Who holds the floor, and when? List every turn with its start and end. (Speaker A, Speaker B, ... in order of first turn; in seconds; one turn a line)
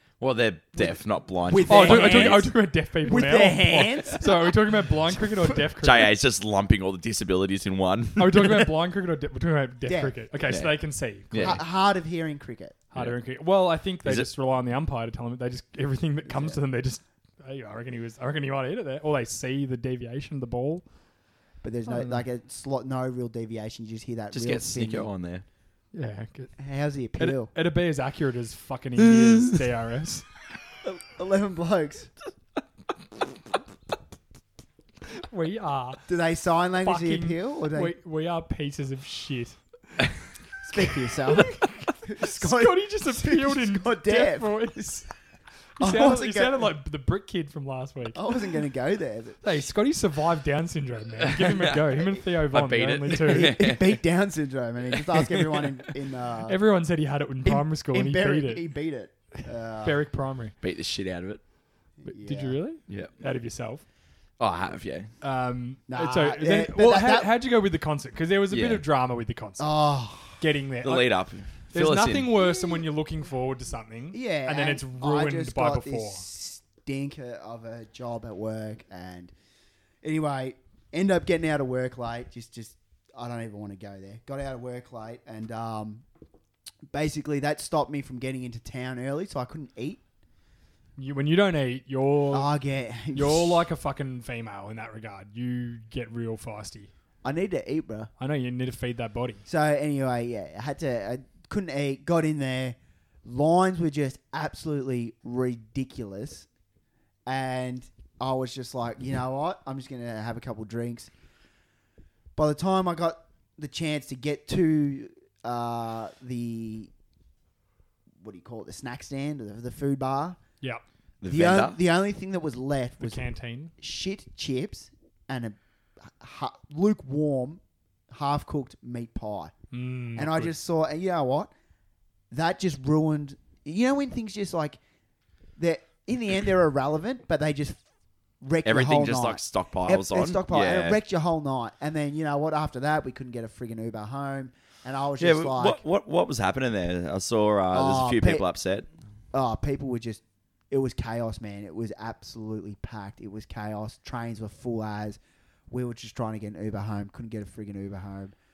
Speaker A: 0.2-2.5
Speaker B: 1.4-4.6
Speaker C: 1.7-6.1
Speaker A: 5.8-8.7
Speaker C: 8.2-11.6
Speaker B: 9.8-10.1
Speaker A: 10.5-10.8
Speaker A: 11.3-11.6
Speaker B: 11.4-12.8
Speaker C: 12.9-20.8
Speaker B: 16.2-16.6
Speaker B: 21.6-25.1
Speaker C: 21.9-22.2
Speaker A: 24.3-25.4
Speaker C: 25.9-26.5
Speaker B: 26.6-27.5
Speaker C: 27.2-30.2
Speaker B: 30.8-32.1
Speaker C: 35.1-36.0
Speaker B: 36.1-37.9
Speaker C: 36.8-39.6
Speaker B: 40.7-44.9
Speaker C: 40.7-45.1
Speaker C: 45.8-48.2
Speaker B: 45.8-46.7
Speaker B: 48.1-49.4
Speaker C: 49.4-53.5
Speaker A: 51.2-54.0
Speaker B: 53.2-56.6
Speaker A: 55.1-55.7
Speaker C: 56.5-58.7
Speaker B: 57.4-60.0
Speaker C: 59.8-60.5
Speaker A: 60.6-61.4
Speaker B: 62.0-62.6
Speaker C: 62.0-63.8
Speaker A: 64.4-65.1
Speaker C: 65.2-69.7
Speaker B: 65.9-67.3
Speaker A: 68.5-68.8
Speaker B: 69.6-70.4
Speaker C: 70.3-71.1
Speaker A: 70.8-72.3
Speaker C: 71.7-76.2
Speaker B: 74.1-79.3
Speaker B: 80.0-86.0
Speaker B: 86.9-90.0
Speaker C: 91.0-92.5
Speaker B: 92.3-93.7
Speaker C: 93.1-96.9
Speaker B: 97.2-98.1
Speaker C: 98.2-99.4
Speaker B: 99.5-106.5
Speaker B: 107.2-111.1
Speaker B: 112.3-116.9
Speaker B: 118.2-120.4
Speaker A: 121.2-121.8
Speaker B: 121.3-129.5
Speaker C: 123.0-123.7
Speaker C: 129.7-130.5
Speaker B: 130.1-131.5
Speaker B: 132.3-134.8
Speaker B: 135.6-137.8
Speaker B: 138.4-145.8
Speaker A: 138.6-141.0
Speaker A: 145.2-148.9
Speaker B: 147.7-148.4
Speaker B: 149.3-158.3